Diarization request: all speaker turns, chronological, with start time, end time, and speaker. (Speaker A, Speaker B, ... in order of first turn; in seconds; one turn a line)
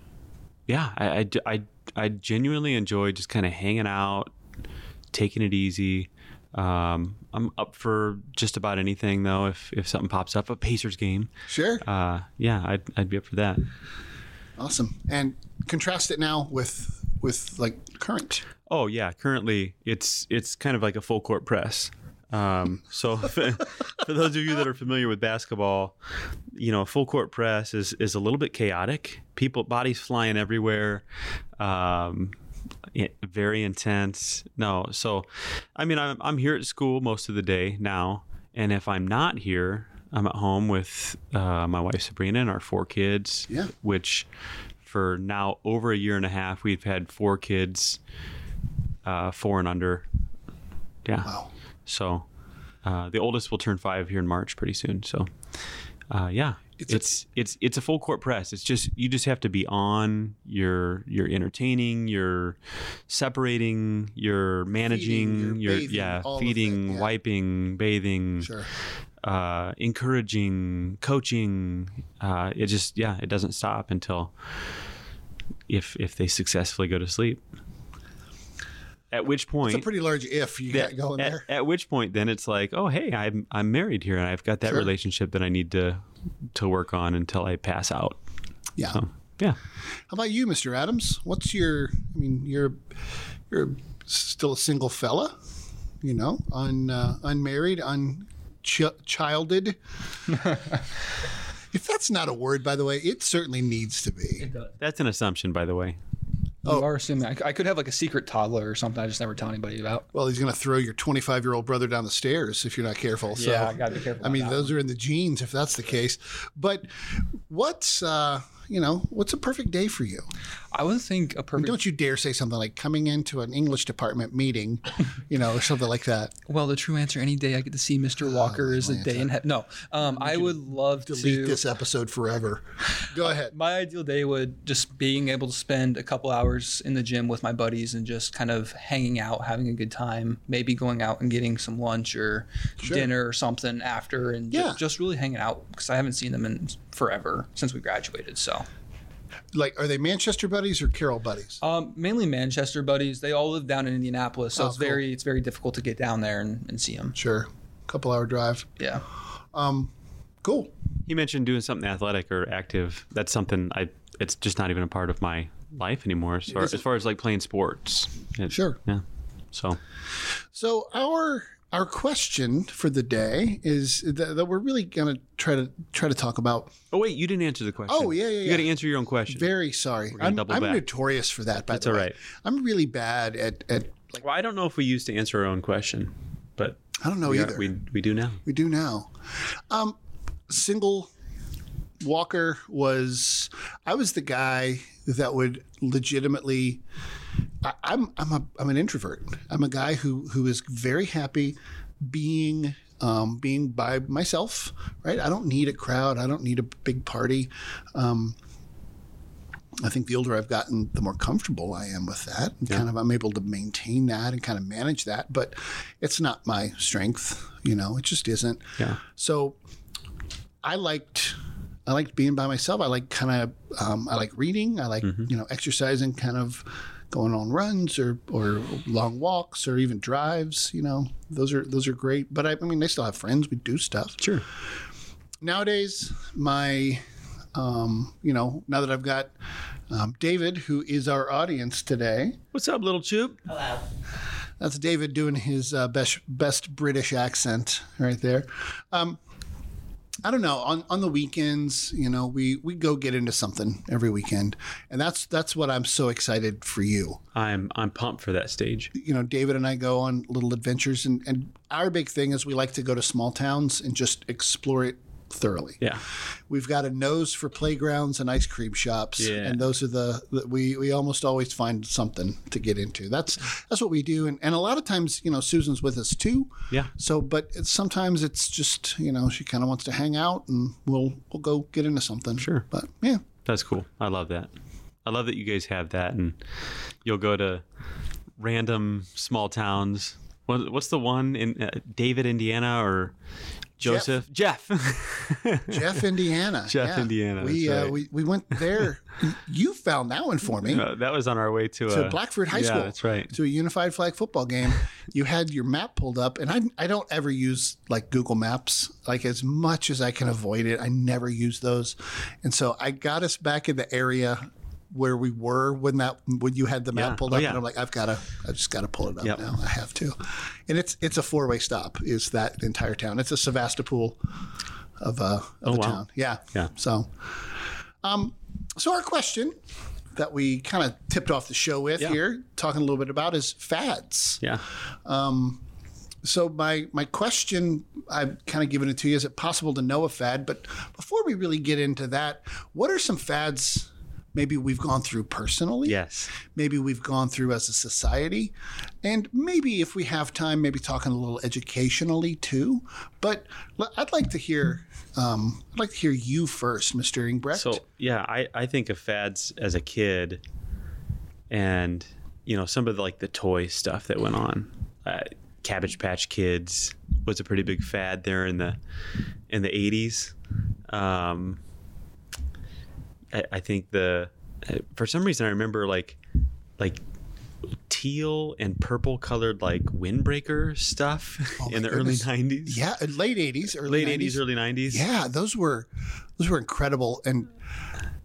Speaker A: 0.7-4.3
Speaker A: 5.1-11.3
Speaker B: 11.5-11.8
Speaker A: 11.8-13.7
Speaker B: 14.6-18.4
Speaker A: 18.6-25.9
Speaker A: 26.5-31.0
Speaker A: 31.6-32.4
Speaker A: 32.9-44.3
Speaker A: 44.8-48.0
Speaker A: 49.0-50.0
Speaker A: 51.0-51.3
Speaker A: 51.9-52.2
Speaker A: 52.8-55.3
Speaker A: 56.1-68.5
Speaker B: 56.8-57.1
Speaker B: 64.8-67.1
Speaker B: 68.4-68.7
Speaker A: 69.2-74.3
Speaker A: 75.7-77.4
Speaker A: 79.1-79.9
Speaker B: 79.6-81.5
Speaker A: 80.7-88.2
Speaker B: 88.8-89.0
Speaker A: 88.9-89.6
Speaker B: 90.1-92.8
Speaker B: 93.5-95.3
Speaker B: 96.0-99.8
Speaker B: 101.7-104.5
Speaker C: 104.4-104.7
Speaker A: 104.8-106.0
Speaker C: 106.6-110.1
Speaker B: 110.1-120.3
Speaker C: 113.4-114.7
Speaker C: 120.7-121.8
Speaker B: 121.6-126.3
Speaker C: 126.5-131.6
Speaker B: 128.2-129.3
Speaker B: 130.0-133.5
Speaker C: 133.4-148.7
Speaker B: 142.8-143.1
Speaker B: 144.5-144.8
Speaker B: 149.5-151.6
Speaker C: 151.6-157.2
Speaker B: 154.6-155.0
Speaker B: 157.1-158.7
Speaker C: 158.8-159.0
Speaker B: 159.5-159.9
Speaker B: 160.4-160.7
Speaker A: 161.1-169.8
Speaker B: 166.5-166.8
Speaker B: 168.5-168.8
Speaker B: 170.5-176.8
Speaker A: 176.9-179.5
Speaker B: 177.9-178.7
Speaker B: 179.3-184.2
Speaker A: 180.1-180.8
Speaker A: 181.7-182.2
Speaker A: 184.2-188.4
Speaker B: 187.0-187.7
Speaker B: 188.4-189.1
Speaker B: 189.7-189.9
Speaker B: 190.5-191.1
Speaker B: 192.0-196.8
Speaker B: 197.6-208.3
Speaker B: 209.8-219.6
Speaker B: 220.6-234.2
Speaker A: 234.2-234.4
Speaker B: 235.4-237.0
Speaker B: 237.5-239.3
Speaker B: 239.9-242.4
Speaker A: 242.5-243.4
Speaker B: 244.6-249.2
Speaker B: 250.2-257.2
Speaker A: 257.3-258.9
Speaker B: 258.9-265.8
Speaker B: 266.5-283.2
Speaker A: 269.2-269.6
Speaker A: 282.4-282.6
Speaker A: 283.4-284.5
Speaker A: 285.0-286.4
Speaker A: 287.0-287.6
Speaker A: 288.4-293.1
Speaker A: 293.8-298.0
Speaker B: 293.8-294.1
Speaker B: 295.7-300.9
Speaker A: 300.6-303.3
Speaker B: 301.9-324.2
Speaker A: 316.9-317.6
Speaker B: 325.0-327.4
Speaker A: 325.6-326.0
Speaker B: 328.0-329.5
Speaker B: 330.1-334.4
Speaker B: 335.0-335.6
Speaker B: 336.2-357.8
Speaker A: 345.8-346.3
Speaker A: 357.5-360.4
Speaker A: 361.5-368.8
Speaker A: 369.5-370.4
Speaker A: 370.9-371.6
Speaker A: 373.3-376.2
Speaker A: 377.9-382.8
Speaker B: 381.6-387.5
Speaker A: 383.8-385.1